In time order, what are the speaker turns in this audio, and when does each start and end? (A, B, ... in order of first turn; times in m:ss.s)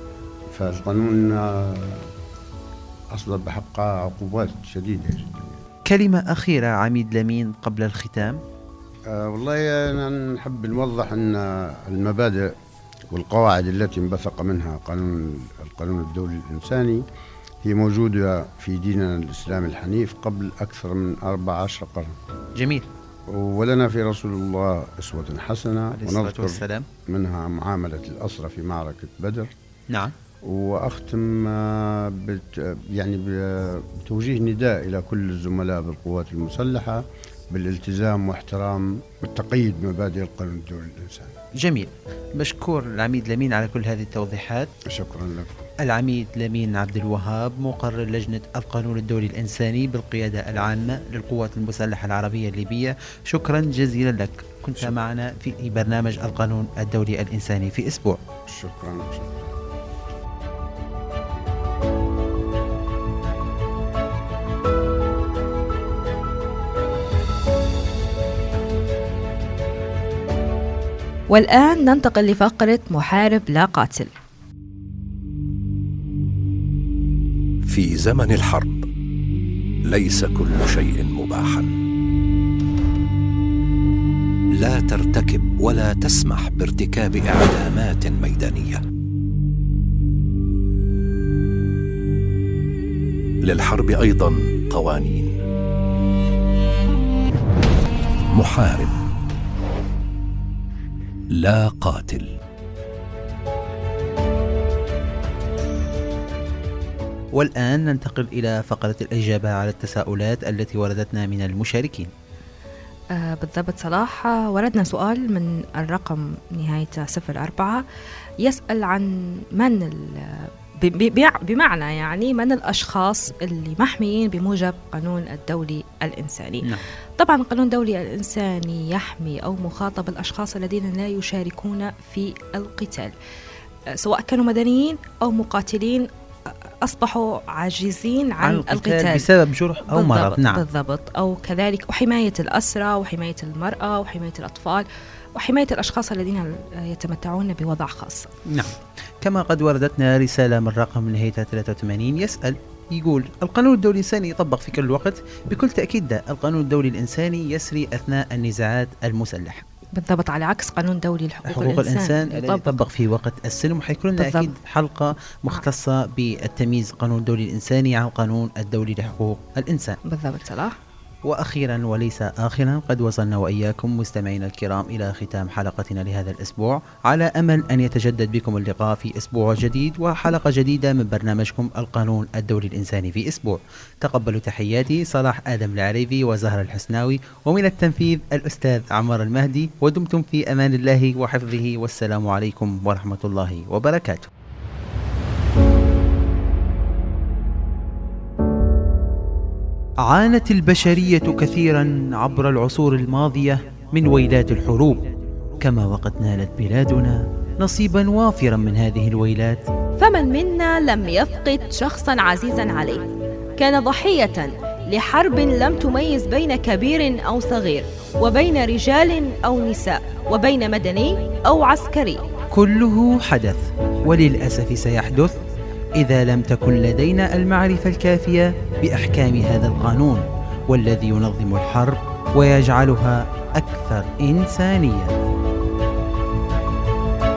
0:00.5-0:02.1 A
0:03.1-0:05.6 A
0:05.9-0:08.4 B
0:09.1-0:12.5 A
0:13.1-0:17.0 A
0:17.6-0:22.1 A
0:22.6-0:22.9 B
0:23.3-0:29.5 A
0:25.9-0:26.9 B
0:29.9-0:30.2 B
0:30.4-0:41.3 A
0:41.6-0:44.7 B
0:44.9-0:45.7 A
0:45.8-0:58.2 B
0:58.5-0:59.6 A
1:11.3-1:14.1 C
1:17.7-1:18.8 D
1:19.9-1:21.7 D
1:24.6-1:28.8 D
1:33.4-1:35.3 D
1:38.3-1:39.0 D
1:41.4-1:42.3 D
1:47.3-1:52.1 B
1:53.1-1:57.8 C
1:58.4-2:13.1 C
2:14.0-2:19.3 C
2:18.4-2:20.6 B
2:19.8-2:24.9 C
2:25.4-2:28.3 C
2:28.5-2:39.6 B
2:40.0-2:42.9 C
2:41.5-2:50.0 B
2:44.2-2:44.5 C
2:50.0-2:50.8 C
2:51.2-3:14.3 B
3:20.0-3:25.0 B
3:25.6-3:29.7 B
3:30.0-3:33.0 C
3:33.6-3:42.3 C
3:42.5-3:45.4 B
3:46.0-3:55.2 B